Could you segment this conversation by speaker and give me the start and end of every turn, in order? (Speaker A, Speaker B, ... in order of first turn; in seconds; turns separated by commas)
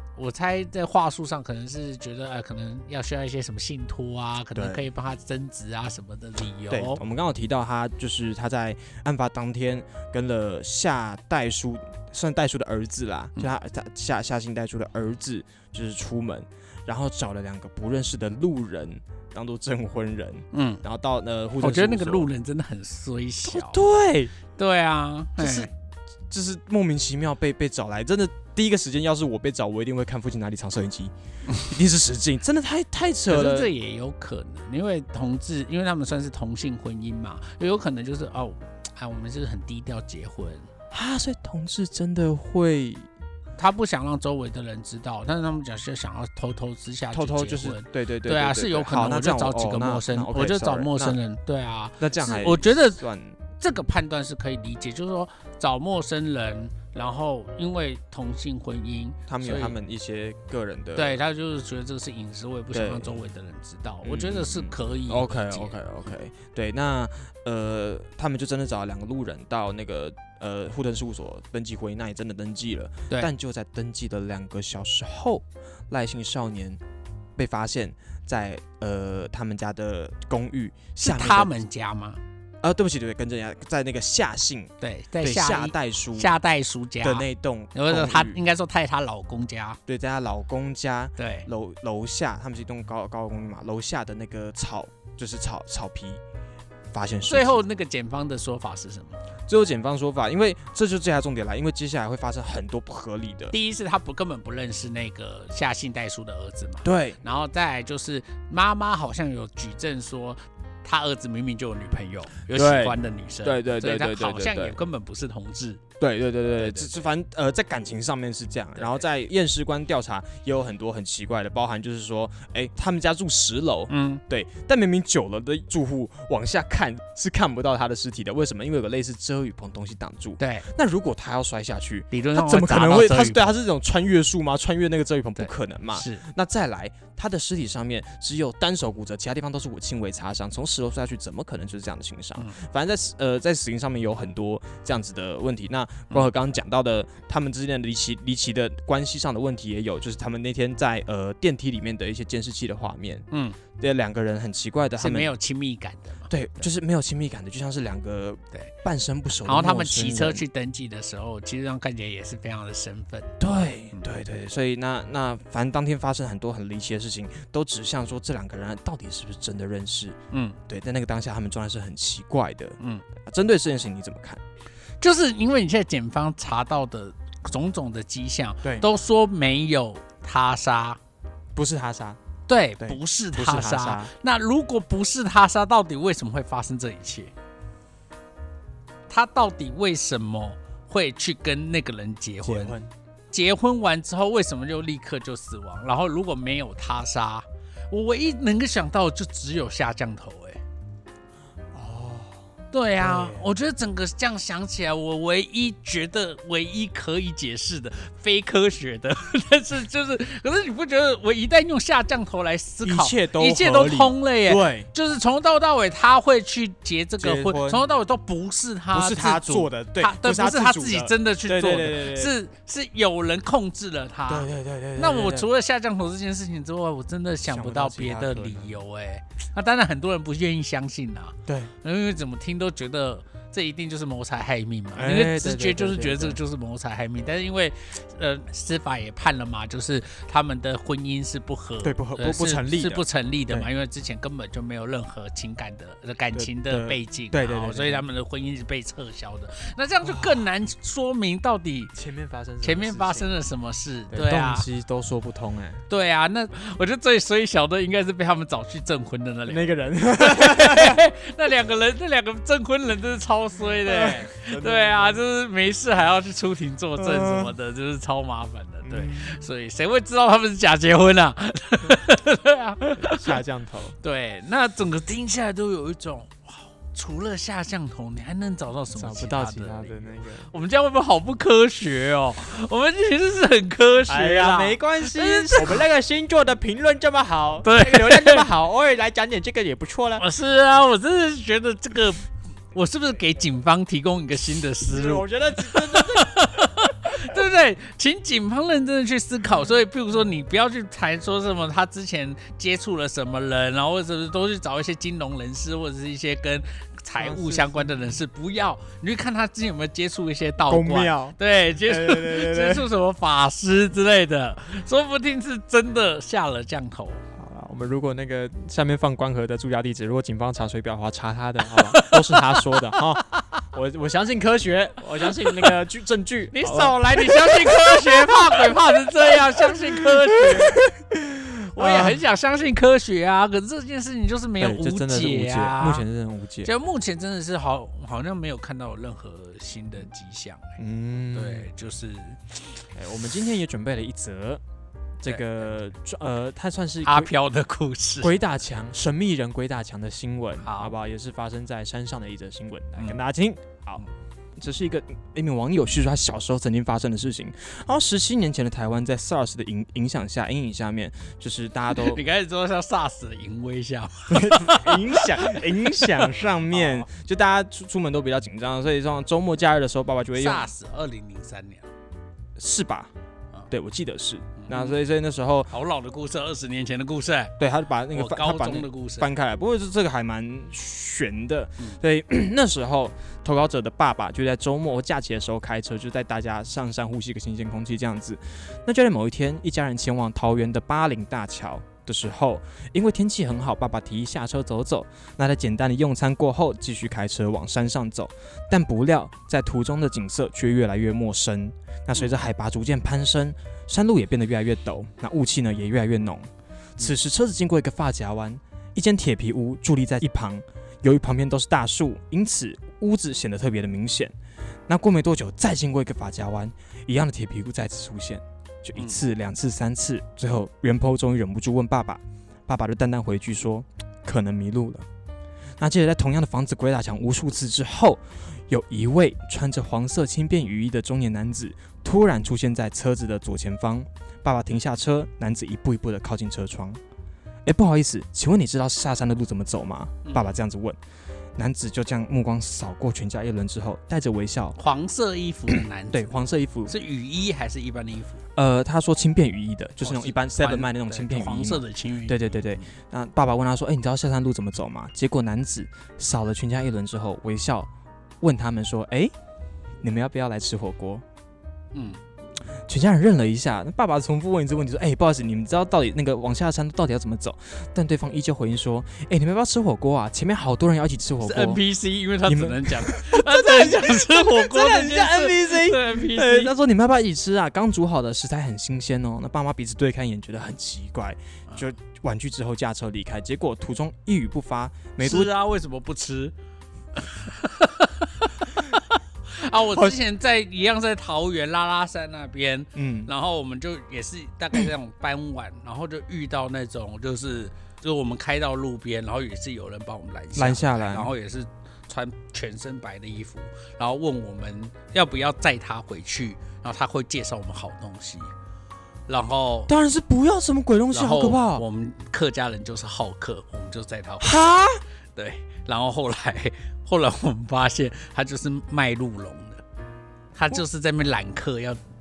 Speaker A: 0.1-7.0, Speaker B: 4.5-4.8, Speaker B: 6.7-22.3, Speaker A: 20.5-20.8, Speaker A: 21.6-23.8, Speaker B: 23.4-24.3, Speaker A: 24.6-25.7, Speaker B: 25.4-25.7, Speaker B: 26.3-33.7, Speaker A: 33.3-40.7, Speaker B: 40.9-43.1, Speaker A: 43.6-53.0, Speaker B: 47.1-51.2, Speaker B: 52.0-53.4, Speaker A: 53.6-59.8, Speaker B: 59.3-61.2, Speaker A: 60.9-65.8, Speaker B: 62.7-63.2, Speaker B: 64.0-76.8, Speaker B: 77.4-81.5, Speaker A: 81.0-82.2, Speaker B: 82.6-86.3, Speaker A: 84.8-89.8, Speaker B: 87.0-88.4, Speaker B: 89.9-96.2, Speaker A: 91.2-91.5, Speaker B: 96.9-97.6, Speaker A: 97.3-99.2, Speaker B: 99.5-103.5, Speaker A: 103.5-115.8, Speaker B: 106.8-107.2, Speaker B: 112.5-114.8, Speaker B: 116.0-153.2, Speaker A: 116.5-116.9, Speaker A: 118.8-119.0, Speaker A: 123.9-124.2, Speaker A: 130.4-130.7, Speaker A: 132.1-133.4, Speaker A: 135.4-136.2, Speaker A: 153.3-153.6, Speaker B: 153.8-155.3, Speaker A: 155.0-156.6, Speaker B: 156.3-160.4, Speaker A: 159.4-163.4, Speaker B: 163.4-170.2, Speaker A: 170.3-170.6, Speaker B: 170.7-174.4, Speaker A: 175.0-181.0, Speaker B: 181.5-182.2, Speaker A: 182.5-187.3, Speaker B: 182.8-184.1, Speaker A: 189.1-192.8, Speaker B: 192.4-192.9, Speaker A: 193.3-200.6, Speaker B: 201.7-202.4, Speaker A: 202.7-251.9, Speaker B: 203.0-203.5, Speaker B: 212.8-214.9, Speaker B: 217.2-217.8, Speaker B: 218.9-222.3, Speaker B: 224.3-225.5, Speaker B: 227.4-228.8, Speaker B: 231.5-231.7, Speaker B: 234.9-236.4, Speaker B: 241.8-243.7, Speaker B: 246.3-248.0, Speaker B: 250.0-250.4, Speaker B: 251.9-253.3, Speaker A: 252.6-254.7, Speaker B: 254.1-255.8, Speaker A: 255.9-273.3, Speaker B: 259.5-261.0, Speaker B: 263.8-265.2, Speaker B: 267.0-267.5, Speaker B: 268.8-269.4, Speaker B: 272.9-273.9, Speaker A: 274.0-285.8, Speaker B: 278.9-280.5, Speaker B: 284.1-290.2, Speaker A: 287.6-288.5, Speaker A: 290.2-317.2, Speaker B: 294.9-296.3, Speaker B: 297.1-297.4, Speaker B: 307.2-308.1, Speaker B: 310.7-312.9, Speaker B: 317.4-332.2, Speaker A: 321.6-323.4, Speaker A: 325.2-325.7, Speaker A: 326.5-330.8, Speaker A: 331.7-336.0, Speaker B: 334.6-336.7, Speaker A: 336.6-340.8, Speaker B: 340.8-341.7, Speaker A: 341.3-342.8, Speaker B: 342.9-344.6, Speaker B: 345.2-347.3, Speaker A: 347.0-348.4, Speaker B: 348.2-354.0, Speaker A: 350.6-350.9, Speaker B: 354.6-362.2, Speaker A: 361.9-367.1, Speaker B: 364.3-370.7, Speaker A: 370.3-371.9, Speaker B: 372.6-373.1, Speaker B: 373.7-375.7, Speaker A: 374.6-375.0, Speaker A: 375.7-377.6, Speaker B: 377.6-414.3, Speaker A: 378.1-379.3, Speaker B: 414.9-425.0, Speaker A: 418.9-419.2, Speaker B: 425.8-437.0, Speaker B: 437.6-441.0, Speaker A: 440.2-440.6, Speaker B: 441.6-444.8, Speaker A: 444.8-448.4, Speaker B: 446.1-446.9, Speaker B: 448.6-457.9, Speaker A: 450.0-452.9, Speaker B: 458.4-459.3, Speaker B: 460.0-461.2, Speaker A: 461.9-462.2, Speaker B: 462.9-471.8, Speaker A: 471.4-476.7, Speaker B: 472.4-485.5, Speaker A: 485.2-486.5, Speaker A: 487.1-508.5, Speaker B: 492.9-493.3, Speaker B: 500.6-501.3, Speaker A: 509.3-509.9, Speaker B: 509.9-511.8, Speaker A: 511.1-514.7, Speaker B: 514.4-515.0, Speaker A: 515.4-519.8, Speaker A: 520.5-522.0